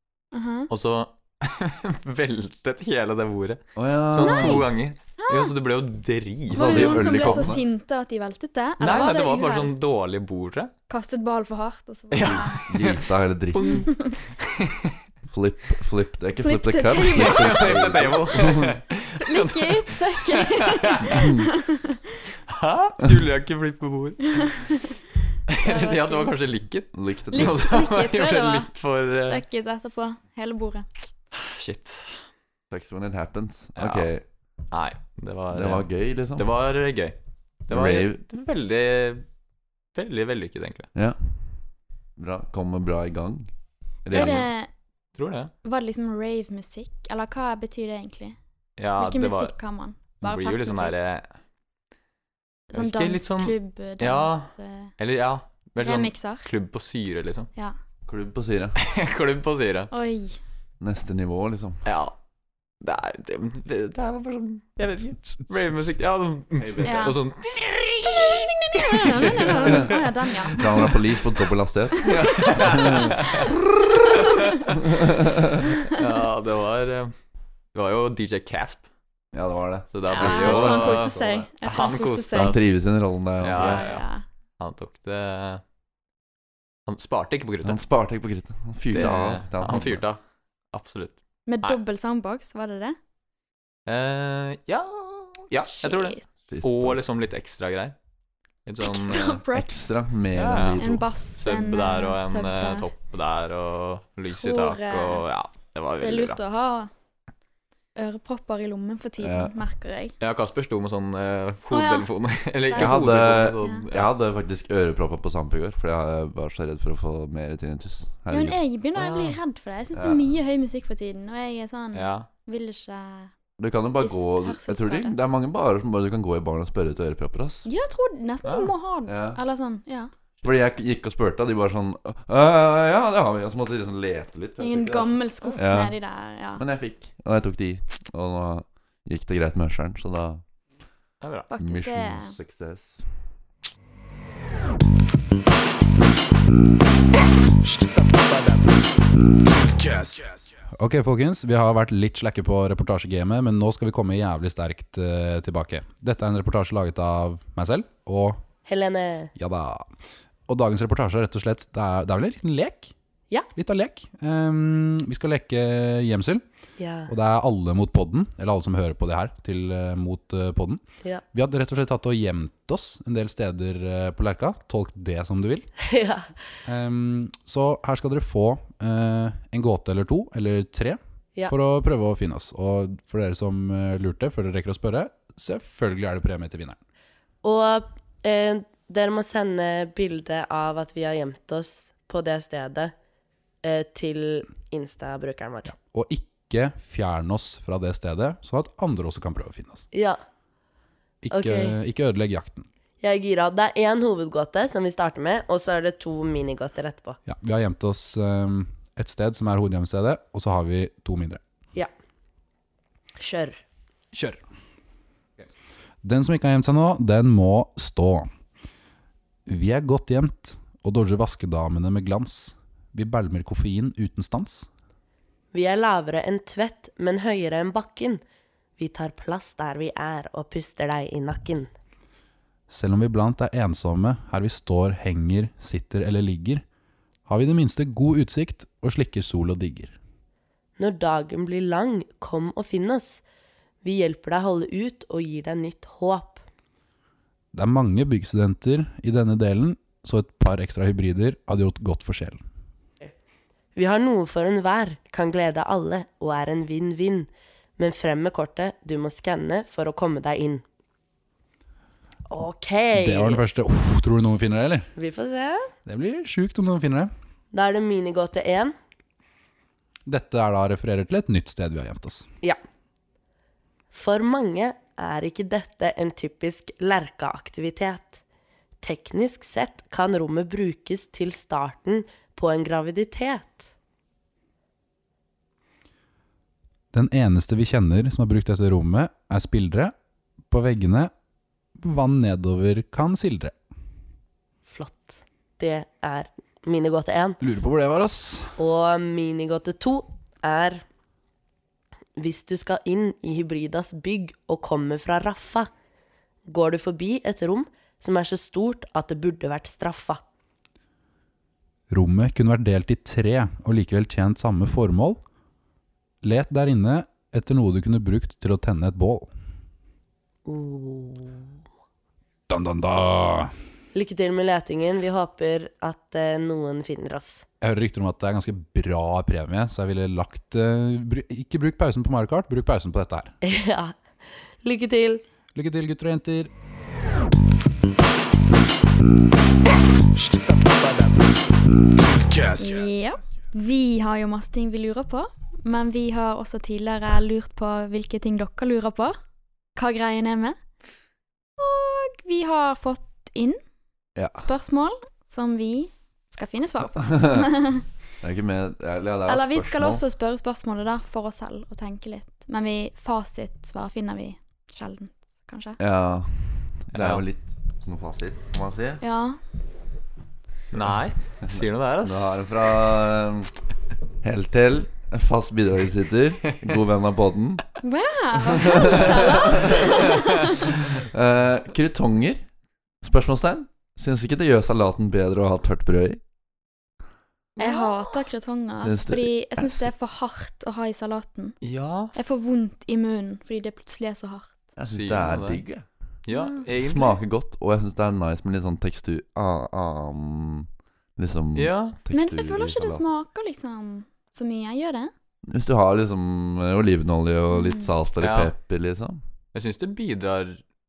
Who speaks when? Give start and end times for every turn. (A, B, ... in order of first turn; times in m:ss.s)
0:00.3-0:00.7 A
0:00.7-0:07.6 B
0:03.8-0:04.7 C
0:04.2-0:04.6 A
0:05.2-0:05.5 A
0:06.5-0:07.6 C
0:06.5-0:09.7 A
0:08.8-0:10.7 B
0:10.9-0:12.6 A
0:12.1-0:14.9 B
0:12.2-0:13.9 C
0:13.6-0:14.2 A
0:15.3-0:18.8 C
0:16.4-0:17.8 A
0:17.1-0:21.1 B
0:19.2-0:22.0 A
0:22.5-0:24.8 B
0:25.5-0:29.4 B
0:25.6-0:26.3 A
0:26.9-0:27.6 C
0:27.3-0:28.7 A
0:29.2-0:30.9 A
0:31.3-0:32.2 B
0:32.7-0:34.2 C
0:33.8-0:34.1 B
0:34.7-0:37.2 B
0:35.5-0:36.5 C
0:37.7-0:39.2 B
0:37.7-0:38.2 C
0:39.9-0:40.9 B
0:41.0-0:41.6 C
0:42.2-0:43.5 C
0:44.0-0:44.5 C
0:44.1-0:44.5 B
0:44.1-0:44.7 A
0:45.2-0:45.5 B
0:45.6-0:48.4 A
0:48.8-0:49.6 B
0:49.0-0:51.0 A
0:50.2-0:51.3 B
0:52.7-0:54.9 A
0:52.7-0:57.5 B
0:55.8-0:56.5 A
0:58.1-0:58.8 C
0:58.8-0:59.9 B
0:59.9-1:00.4 A
1:00.8-1:01.8 C
1:01.8-1:02.1 B
1:02.8-1:11.0 B
1:06.6-1:07.2 C
1:06.8-1:07.2 A
1:08.0-1:10.6 A
1:10.6-1:13.2 C
1:12.0-1:13.5 A
1:12.0-1:14.8 B
1:14.1-1:14.6 A
1:14.9-1:15.5 C
1:15.9-1:17.1 B
1:17.7-1:18.8 B
1:19.3-1:21.5 C
1:19.9-1:22.6 B
1:20.1-1:22.6 A
1:22.3-1:24.0 C
1:23.4-1:24.1 B
1:23.5-1:24.2 A
1:24.6-1:25.6 B
1:26.9-1:27.8 B
1:27.6-1:30.0 C
1:28.9-1:30.2 B
1:30.7-1:31.8 B
1:31.5-1:33.0 A
1:33.9-1:37.9 B
1:35.7-1:36.2 A
1:36.5-1:37.1 C
1:38.6-1:39.4 B
1:38.8-1:39.9 A
1:39.5-1:41.0 C
1:40.3-1:46.4 B
1:40.8-1:42.9 A
1:44.3-1:45.2 A
1:46.0-1:46.9 A
1:48.0-1:50.1 A
1:49.2-1:49.5 C
1:50.2-1:54.1 B
1:51.7-1:52.1 A
1:52.6-1:53.1 A
1:52.8-1:58.6 C
1:58.3-2:03.3 A
1:59.0-1:59.4 B
2:00.0-2:00.2 C
2:01.9-2:02.3 B
2:03.6-2:07.7 C
2:04.0-2:05.2 A
2:07.6-2:10.1 A
2:08.4-2:08.7 B
2:09.1-2:09.4 C
2:10.4-2:16.0 C
2:14.6-2:16.6 A
2:16.6-2:20.4 C
2:21.2-2:21.5 B
2:21.5-2:22.4 A
2:21.6-2:23.1 C
2:30.8-2:38.4 D
2:38.7-2:39.3 E
2:39.4-2:39.9 D
2:40.5-2:42.9 D
2:43.6-2:46.4 D
2:46.8-2:47.1 E
2:47.1-2:50.8 D
2:51.3-2:55.7 D
2:55.8-2:56.3 E
2:56.7-3:06.8 D
3:07.4-3:12.9 E
3:13.6-3:15.7 E
3:15.7-3:19.9 D
3:19.9-3:20.2 E
3:21.2-3:22.7 D
3:21.3-3:21.8 E
3:23.0-3:27.2 E
3:27.3-3:31.4 D
3:33.2-3:33.6 E
3:34.1-3:34.4 D
3:36.0-3:38.3 D
3:39.5-3:44.7 D
3:45.5-3:48.2 E
3:48.8-3:51.7 E
3:52.7-3:56.6 D
3:57.3-3:59.9 D
4:00.8-4:03.2 E
4:03.8-4:06.4 E
4:07.5-4:12.4 D
4:13.8-4:20.6 E
4:22.3-4:23.4 E
4:22.9-4:24.9 D
4:25.0-4:25.7 E
4:25.9-4:27.1 D
4:27.5-4:28.8 E
4:30.1-4:32.2 D
4:33.9-4:38.2 E
4:38.8-4:43.7 E
4:46.9-4:49.9 D
4:50.5-4:51.1 D
4:51.8-4:53.5 D
4:54.7-4:57.4 E
4:57.4-4:58.6 D
4:58.6-5:00.8 E
5:02.2-5:05.7 E
5:06.5-5:10.2 E
5:11.9-5:15.2 D
5:16.2-5:19.3 D
5:20.5-5:21.5 E
5:22.5-5:23.5 D
5:23.9-5:27.4 E
5:27.6-5:33.3 D
5:33.4-5:34.0 E
5:34.6-5:35.2 E
5:35.6-5:36.5 D
5:42.6-5:49.2 A
5:49.8-5:50.6 A
5:51.6-5:53.6 A
5:54.2-5:54.5 C
5:54.4-5:57.8 A
5:58.2-6:00.0 C
5:59.3-6:05.8 A
6:05.8-6:09.0 C
6:06.9-6:07.2 B
6:09.0-6:09.4 A
6:10.7-6:12.4 B
6:11.4-6:13.6 C
6:14.2-6:17.6 C
6:17.8-6:20.7 A
6:18.5-6:20.0 C
6:20.6-6:22.5 C
6:23.0-6:26.2 C
6:27.6-6:27.9 B
6:27.6-6:31.6 A
6:28.8-6:29.8 C
6:31.6-6:32.1 B
6:32.1-6:34.7 A
6:34.8-6:35.8 C
6:34.9-6:35.6 B
6:36.2-6:37.2 B
6:36.3-6:36.7 A
6:36.8-6:43.0 C
6:41.6-6:42.0 B
6:42.1-6:45.1 A
6:45.5-6:49.2 C
6:47.5-6:47.9 A
6:48.2-6:48.5 B
6:49.5-6:50.6 B